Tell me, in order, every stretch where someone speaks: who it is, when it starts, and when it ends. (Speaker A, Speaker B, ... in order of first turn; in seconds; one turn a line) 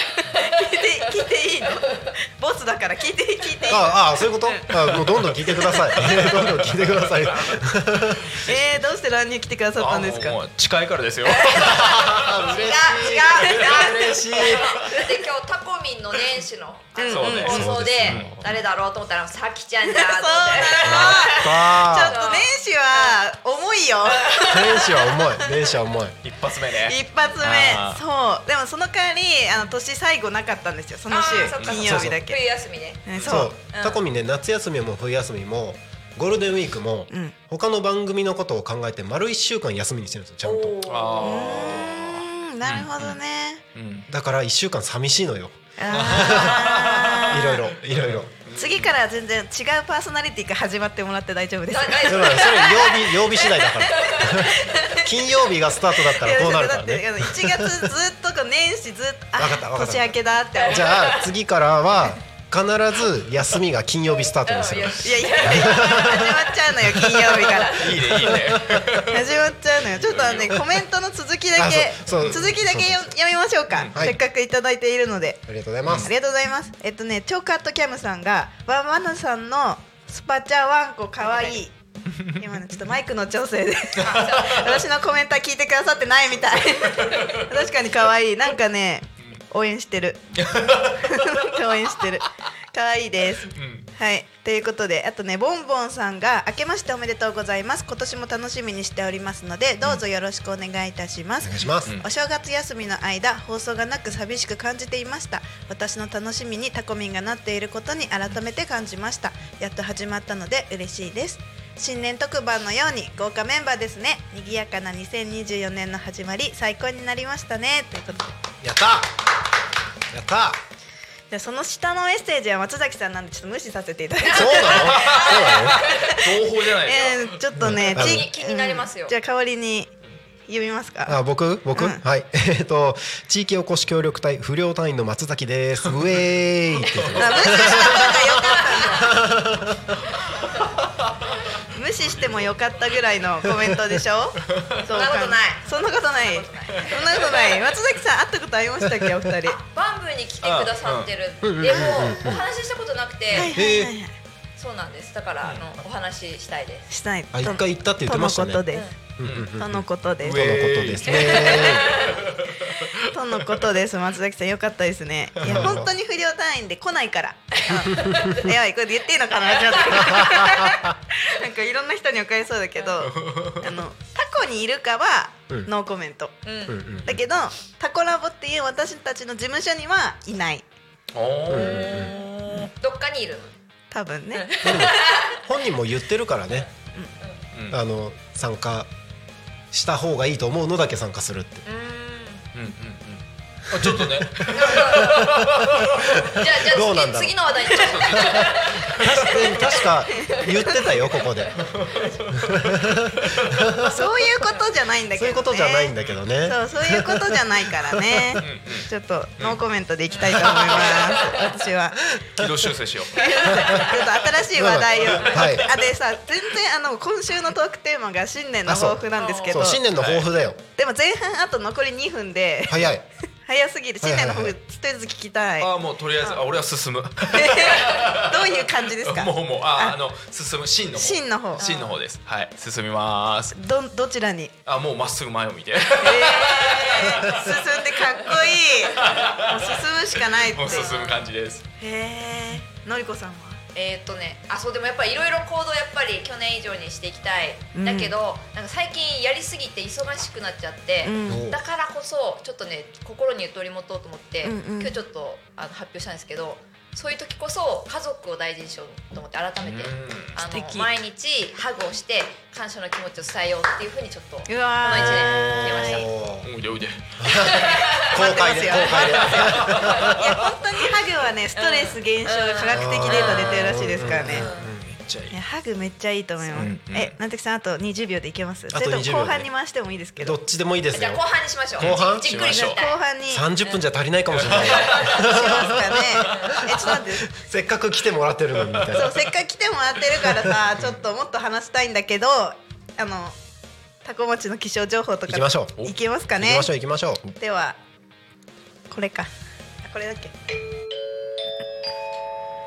Speaker A: 0.3-6.2
Speaker B: 3.7-8.3
Speaker C: 6.1-7.3
Speaker A: 8.4-10.4
Speaker C: 9.8-12.4
Speaker B: 11.6-14.9
Speaker D: 12.5-23.2
Speaker C: 13.8-14.2
Speaker A: 17.0-17.7
Speaker C: 17.1-18.4
Speaker B: 17.5-18.4
Speaker A: 19.9-25.2
Speaker B: 20.8-22.2
Speaker B: 24.5-26.2
Speaker C: 26.2-28.0
Speaker A: 26.9-32.4
Speaker D: 31.1-33.1
Speaker C: 31.4-31.8
Speaker B: 31.8-32.2
Speaker A: 33.1-33.9
Speaker B: 33.3-40.8
Speaker A: 37.1-37.4
Speaker D: 40.4-41.9
Speaker C: 40.8-43.1
Speaker A: 41.2-43.6
Speaker C: 43.8-44.1
Speaker B: 44.1-46.7
Speaker A: 45.8-47.6
Speaker C: 45.9-48.9
Speaker B: 47.3-48.3
Speaker A: 48.5-52.8
Speaker D: 51.7-54.8
Speaker B: 52.1-57.9
Speaker A: 54.1-55.0
Speaker A: 56.1-61.1
Speaker B: 59.4-66.3
Speaker D: 60.6-61.3
Speaker D: 64.4-66.6
Speaker A: 65.0-67.8
Speaker D: 67.3-67.9
Speaker C: 67.8-70.7
Speaker B: 68.0-69.0
Speaker A: 69.1-75.5
Speaker B: 71.5-73.1
Speaker C: 72.1-72.4
Speaker C: 73.7-74.1
Speaker B: 75.5-76.1
Speaker A: 76.0-81.7
Speaker D: 81.2-81.6
Speaker A: 82.3-90.2
Speaker D: 84.0-84.7
Speaker C: 87.0-87.4
Speaker C: 90.4-91.5
Speaker A: 91.0-118.3
Speaker C: 93.5-93.9
Speaker B: 101.4-102.0
Speaker B: 118.6-119.1
Speaker B: 120.1-120.6
Speaker A: 121.3-125.2
Speaker D: 124.3-125.5
Speaker B: 124.3-125.8
Speaker C: 124.8-127.4
Speaker A: 125.8-129.9
Speaker B: 127.6-128.3
Speaker D: 127.9-129.2
Speaker A: 130.5-131.2
Speaker B: 131.1-138.2
Speaker A: 131.7-132.0
Speaker D: 137.1-139.2
Speaker A: 137.2-139.2
Speaker B: 138.9-139.9
Speaker A: 141.7-149.6
Speaker C: 142.1-142.5
Speaker D: 144.9-147.6
Speaker D: 149.4-153.5
Speaker C: 150.4-151.1
Speaker B: 151.4-152.5
Speaker A: 153.3-154.1
Speaker B: 153.4-153.9
Speaker D: 154.6-156.9
Speaker A: 156.9-158.9
Speaker B: 157.3-158.6
Speaker B: 159.2-162.0
Speaker C: 159.2-159.5
Speaker A: 159.6-160.5
Speaker C: 160.2-163.0
Speaker D: 161.2-162.2
Speaker A: 161.2-161.6
Speaker A: 163.1-176.4
Speaker C: 165.4-165.8
Speaker B: 165.4-165.9
Speaker D: 167.9-168.4
Speaker D: 169.7-170.7
Speaker B: 170.0-170.7
Speaker C: 173.1-173.6
Speaker D: 176.4-176.8
Speaker B: 176.7-177.2
Speaker A: 177.0-180.7
Speaker C: 181.1-182.7
Speaker B: 181.5-182.1
Speaker D: 181.5-183.5
Speaker A: 183.9-184.5
Speaker D: 184.4-185.4
Speaker B: 184.6-186.7
Speaker C: 187.5-187.8
Speaker B: 187.7-188.9
Speaker B: 189.7-191.6
Speaker D: 191.7-192.5
Speaker C: 192.5-196.2
Speaker B: 193.8-197.6
Speaker D: 194.6-195.2
Speaker D: 196.3-201.2
Speaker C: 197.7-199.3
Speaker B: 198.2-201.6
Speaker A: 200.3-200.8
Speaker C: 201.6-203.6
Speaker B: 202.4-203.9
Speaker A: 203.8-205.9
Speaker B: 205.2-208.4
Speaker A: 206.4-212.0
Speaker C: 208.4-209.6
Speaker C: 210.1-211.2
Speaker B: 212.3-212.6
Speaker C: 212.4-213.8
Speaker A: 213.1-219.8
Speaker D: 213.4-213.8
Speaker B: 214.5-215.8
Speaker C: 215.1-215.4
Speaker B: 218.7-220.6
Speaker D: 219.2-219.6
Speaker C: 219.9-220.3
Speaker A: 220.8-222.9
Speaker B: 222.7-223.1
Speaker A: 223.4-225.7
Speaker B: 224.0-224.6
Speaker C: 225.6-233.6
Speaker A: 227.3-230.0
Speaker A: 230.9-231.6
Speaker D: 231.6-232.0
Speaker A: 233.5-234.5
Speaker C: 234.7-237.6
Speaker A: 236.0-241.0
Speaker D: 236.6-237.2
Speaker C: 238.9-239.8
Speaker C: 240.4-241.7
Speaker D: 240.7-241.2
Speaker A: 241.8-243.6
Speaker D: 243.7-266.1
Speaker A: 247.8-248.1
Speaker A: 251.0-251.4
Speaker B: 251.3-251.6
Speaker A: 254.4-254.9
Speaker C: 259.6-260.4
Speaker A: 260.5-260.9
Speaker A: 264.5-266.1
Speaker B: 264.9-266.5
Speaker C: 266.4-267.5
Speaker B: 267.2-270.2
Speaker D: 267.5-268.1
Speaker A: 268.0-274.5
Speaker C: 269.2-269.9
Speaker D: 271.6-273.7
Speaker B: 272.7-275.0
Speaker C: 273.2-274.2
Speaker D: 274.3-274.7
Speaker C: 274.9-275.4
Speaker A: 275.3-280.4
Speaker C: 276.6-277.1
Speaker B: 278.7-279.5
Speaker B: 280.2-281.2
Speaker D: 280.9-283.0
Speaker C: 281.8-282.8
Speaker B: 281.8-282.3
Speaker A: 282.5-283.5
Speaker B: 283.3-286.4
Speaker C: 284.3-285.1
Speaker D: 284.7-285.4
Speaker A: 285.1-287.3
Speaker B: 287.3-289.1
Speaker A: 288.9-293.4
Speaker A: 294.0-296.7
Speaker B: 295.3-297.2
Speaker A: 297.4-297.8
Speaker A: 298.9-299.3
Speaker A: 299.8-300.3